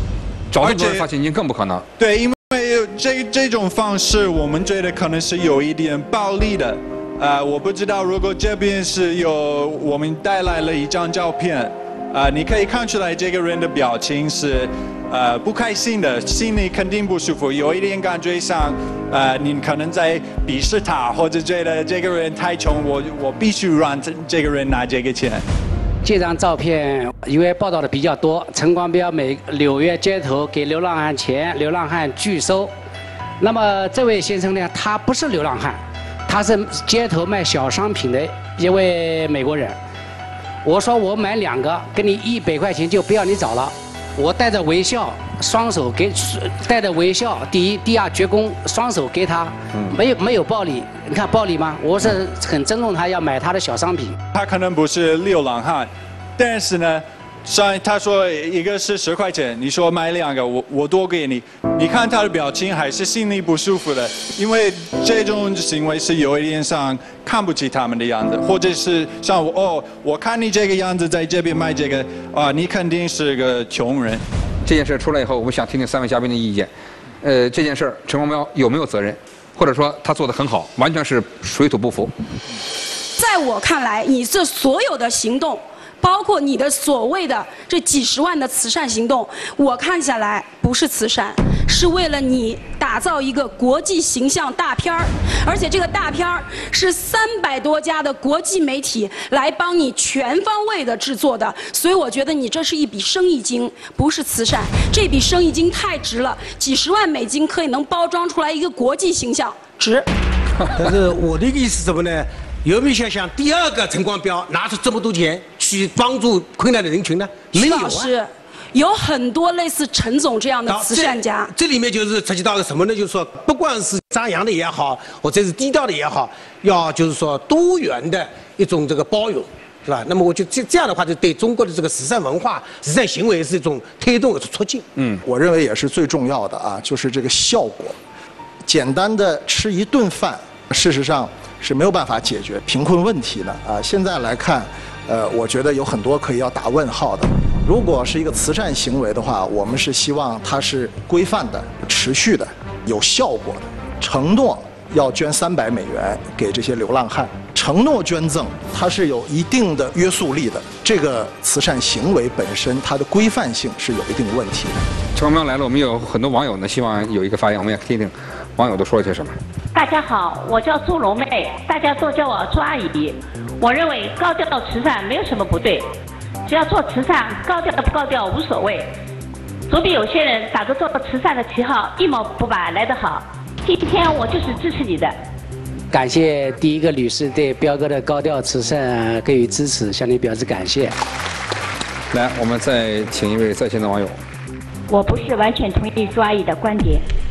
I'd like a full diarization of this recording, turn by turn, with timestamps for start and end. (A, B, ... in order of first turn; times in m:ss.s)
0:00.5-0:01.9 A
0:00.6-0:01.1 B
0:02.0-0:25.4 B
0:26.0-0:32.7 C
0:33.4-0:39.8 C
0:40.6-0:54.2 C
0:54.4-1:14.2 B
1:14.6-1:16.7 A
1:17.2-1:22.1 A
1:23.2-1:50.1 D
1:50.8-1:58.1 E
1:57.5-2:01.5 D
2:00.7-2:14.8 E
2:15.0-2:15.2 A
2:15.2-2:18.0 F
2:18.7-2:44.8 F
2:45.2-2:49.4 A
2:49.7-2:55.9 G
2:56.5-2:58.9 G
2:59.7-3:05.1 G
3:05.9-3:11.0 C
3:12.1-3:14.2 A
3:14.9-3:17.0 G